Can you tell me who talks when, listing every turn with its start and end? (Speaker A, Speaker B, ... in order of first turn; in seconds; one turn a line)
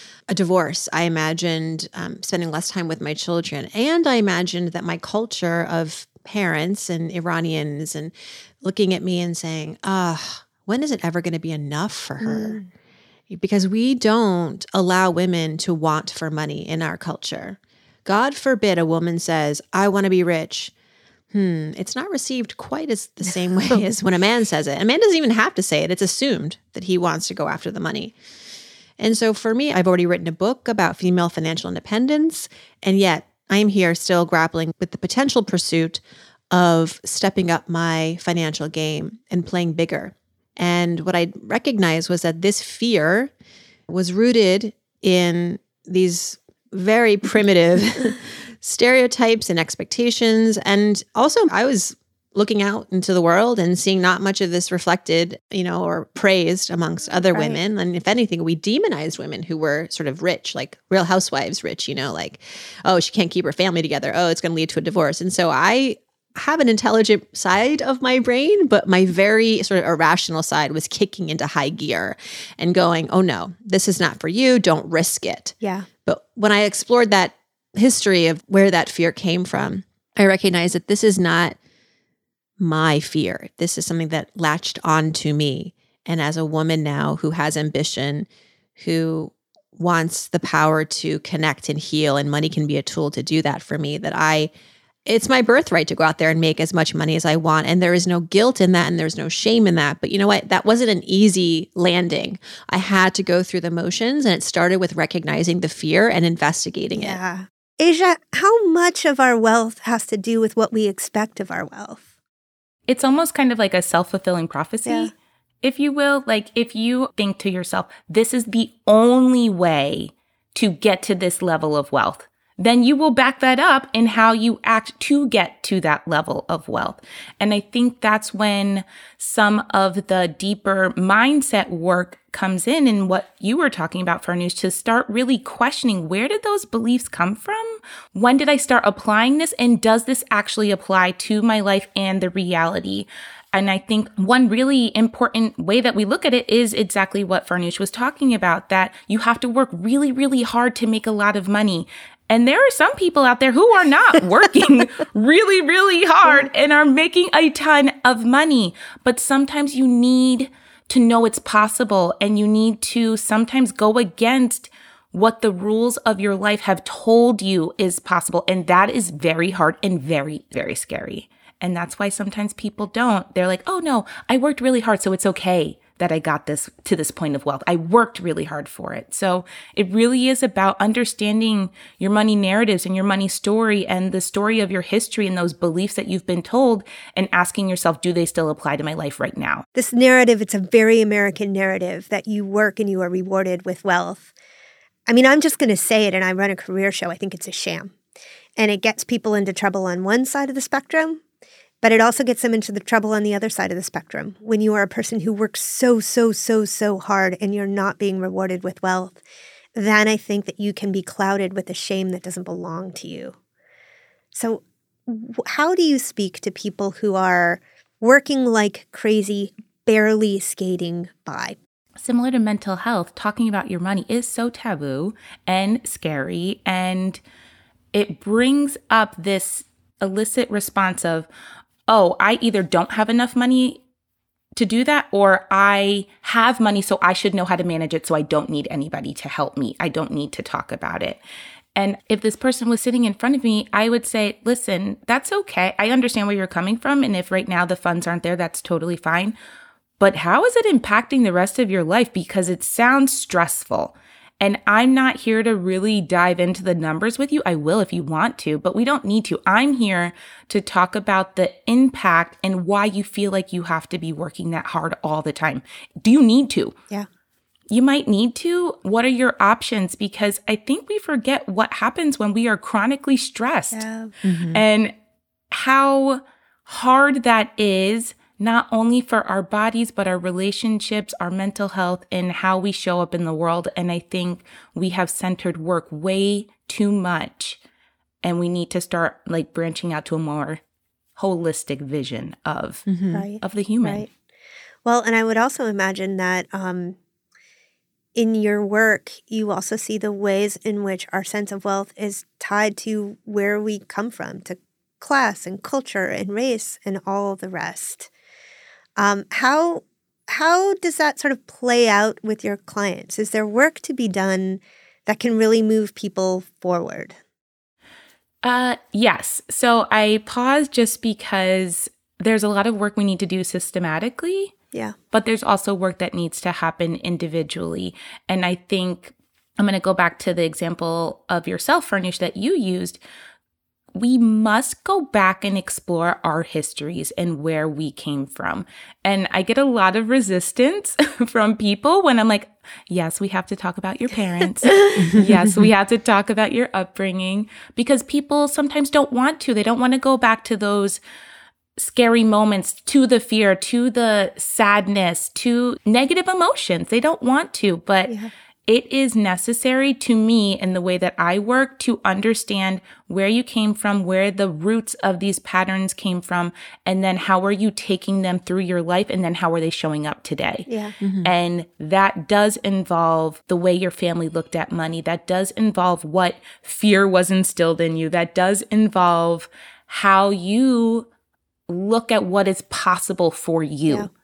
Speaker A: 0.3-12.6
Speaker B: 12.2-12.7
Speaker A: 13.3-20.7
Speaker A: 21.3-28.1
Speaker A: 29.0-43.3
Speaker A: 43.9-81.6
Speaker B: 57.3-57.6
Speaker B: 75.6-75.9
Speaker A: 82.6-94.5
Speaker A: 95.0-107.2
Speaker B: 107.0-112.0
Speaker C: 112.9-189.6
Speaker B: 189.8-194.3
Speaker B: 195.1-197.9
Speaker B: 198.6-201.2
Speaker B: 201.8-209.2
Speaker B: 209.7-213.3
Speaker B: 214.3-221.6
Speaker C: 222.0-227.2
Speaker C: 227.9-231.3
Speaker C: 231.9-233.8
Speaker C: 234.6-241.2
Speaker C: 241.8-249.3
Speaker C: 250.0-266.7
Speaker C: 267.7-274.9
Speaker B: 273.7-274.1
Speaker A: 274.2-274.6
Speaker C: 275.5-287.6
Speaker C: 288.2-290.6
Speaker C: 291.1-292.9
Speaker A: 292.9-293.2
Speaker B: 293.1-294.1
Speaker C: 293.4-294.1
Speaker B: 294.8-297.0
Speaker B: 298.1-308.1
Speaker B: 309.0-317.2
Speaker C: 318.4-324.5
Speaker C: 325.1-333.0
Speaker C: 333.9-351.0
Speaker A: 345.0-345.7
Speaker C: 351.8-370.7
Speaker B: 370.7-370.9
Speaker A: 371.0-371.3
Speaker C: 371.2-381.1
Speaker C: 381.7-384.1